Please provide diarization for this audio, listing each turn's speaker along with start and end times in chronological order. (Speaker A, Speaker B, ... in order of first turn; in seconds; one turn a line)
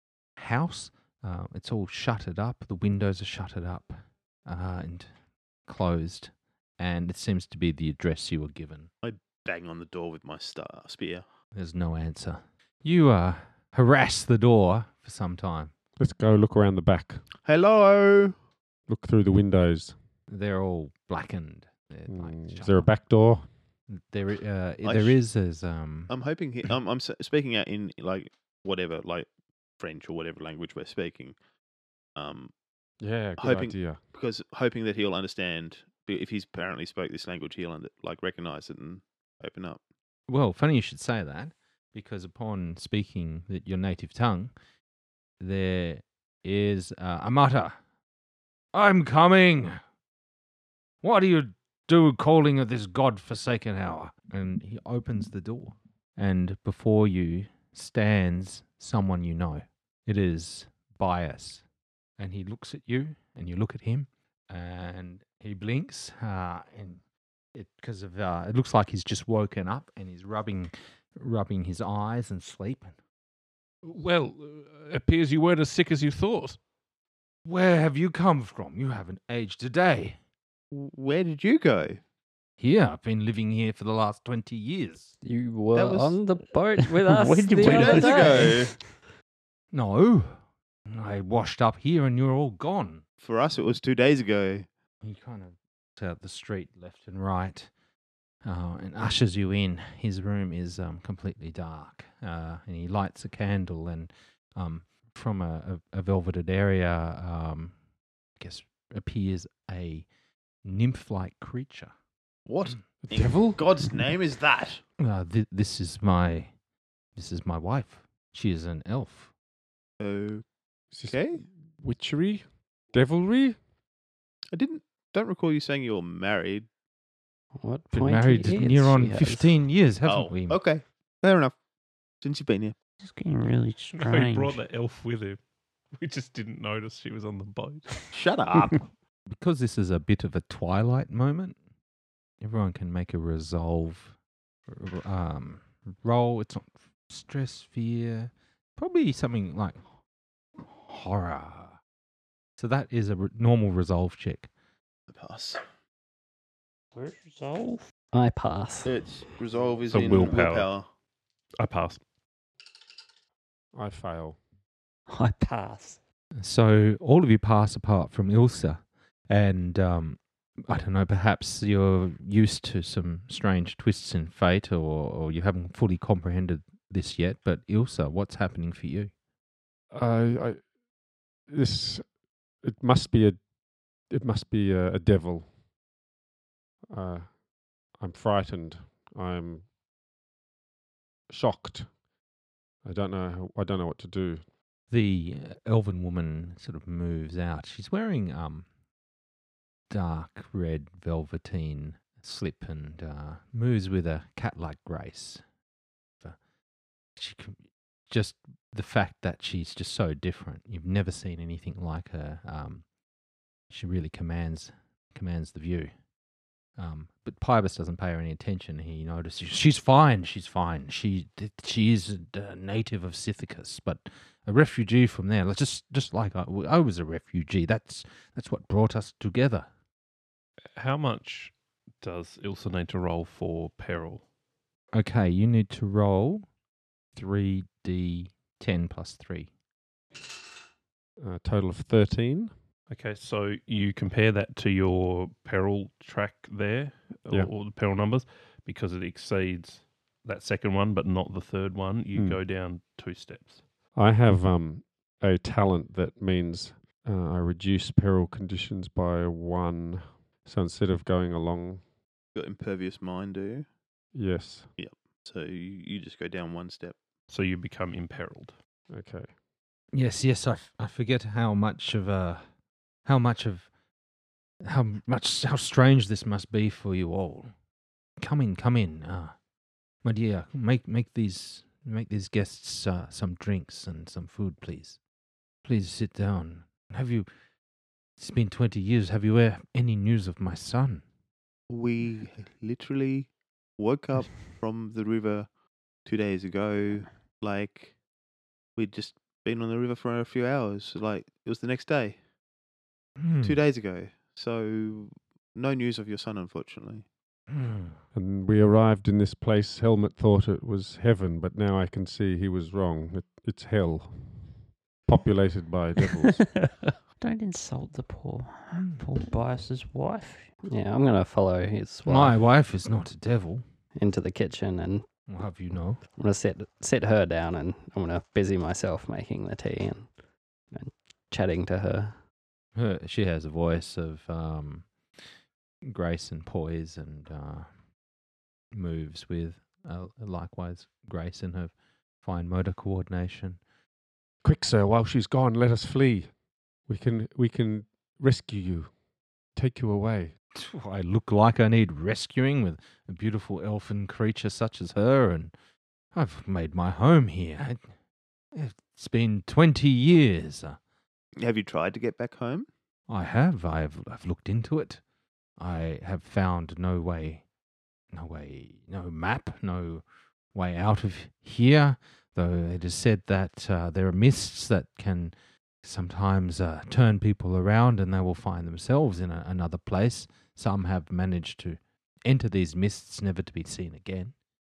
Speaker A: 0.4-5.1
Speaker A: 5.7-8.9
Speaker B: 9.0-11.2
Speaker A: 11.5-15.8
Speaker C: 16.0-17.2
Speaker B: 17.4-18.4
Speaker C: 18.9-20.0
Speaker A: 20.3-22.9
Speaker C: 22.1-23.6
Speaker A: 23.9-26.1
Speaker B: 24.8-25.2
Speaker B: 26.1-31.4
Speaker B: 32.2-32.5
Speaker C: 33.0-34.0
Speaker B: 33.4-39.8
Speaker A: 40.3-44.5
Speaker A: 45.4-47.8
Speaker A: 48.7-49.8
Speaker A: 51.0-61.6
Speaker A: 62.2-67.0
Speaker A: 67.5-72.9
Speaker D: 73.8-76.6
Speaker A: 77.5-80.2
Speaker B: 80.7-82.0
Speaker A: 82.6-85.1
Speaker E: 85.2-88.6
Speaker B: 85.7-86.2
Speaker F: 87.0-88.8
Speaker B: 87.6-88.8
Speaker A: 89.7-90.4
Speaker A: 90.9-93.0
Speaker B: 93.2-94.7
Speaker A: 95.0-97.7
Speaker A: 98.5-107.8
Speaker A: 108.4-110.1
Speaker A: 110.6-111.9
Speaker B: 112.5-114.8
Speaker C: 113.0-114.0
Speaker A: 115.0-116.5
Speaker A: 117.2-119.3
Speaker B: 120.0-120.5
Speaker C: 120.9-123.6
Speaker B: 121.1-121.5
Speaker B: 124.5-126.7
Speaker E: 127.6-129.5
Speaker A: 127.9-130.6
Speaker B: 130.1-131.6
Speaker B: 132.2-132.8
Speaker F: 133.0-134.6
Speaker D: 134.0-135.4
Speaker D: 136.0-138.1
Speaker B: 138.1-138.9
Speaker A: 139.3-141.6
Speaker A: 142.4-144.2
Speaker A: 144.7-149.8
Speaker A: 150.8-151.8
Speaker A: 152.6-154.5
Speaker B: 155.1-155.6
Speaker F: 156.9-157.9
Speaker E: 158.1-159.0
Speaker B: 158.8-160.9
Speaker D: 159.9-160.7
Speaker D: 161.6-162.0
Speaker C: 163.7-164.4
Speaker F: 165.1-166.0
Speaker A: 166.4-179.1
Speaker C: 179.9-180.7
Speaker C: 181.5-183.5
Speaker C: 184.0-185.6
Speaker C: 186.9-189.7
Speaker C: 191.3-192.0
Speaker C: 192.8-194.4
Speaker A: 194.9-198.7
Speaker A: 199.9-205.4
Speaker A: 207.2-212.8
Speaker A: 213.7-215.9
Speaker A: 216.8-229.7
Speaker D: 230.8-234.2
Speaker A: 234.9-236.4
Speaker A: 237.2-239.5
Speaker C: 241.2-242.5
Speaker D: 242.9-253.7
Speaker C: 252.1-252.4
Speaker C: 253.9-261.8
Speaker B: 262.3-263.7
Speaker C: 264.1-264.7
Speaker B: 264.8-267.0
Speaker D: 267.3-268.6
Speaker C: 268.9-269.4
Speaker A: 269.9-272.4
Speaker A: 273.1-273.7
Speaker A: 274.6-277.5
Speaker A: 278.2-279.3
Speaker A: 280.0-285.0
Speaker A: 285.6-287.3
Speaker A: 288.2-291.0
Speaker B: 291.7-295.5
Speaker B: 296.1-297.9
Speaker B: 298.8-302.2
Speaker A: 303.2-303.6
Speaker B: 303.4-307.1
Speaker A: 307.5-308.0
Speaker C: 308.1-316.6
Speaker F: 316.2-320.5
Speaker E: 320.7-322.4
Speaker A: 322.1-323.6
Speaker E: 324.0-325.1
Speaker A: 325.3-326.0
Speaker E: 326.2-330.1
Speaker E: 330.7-332.2
Speaker A: 332.8-334.9
Speaker A: 335.8-337.7
Speaker A: 338.7-343.6
Speaker C: 344.4-349.0
Speaker C: 349.5-350.3
Speaker A: 350.6-355.5
Speaker A: 356.1-357.8
Speaker A: 358.5-360.8
Speaker B: 361.4-362.7
Speaker A: 363.1-365.0
Speaker A: 365.6-367.4
Speaker A: 368.1-384.3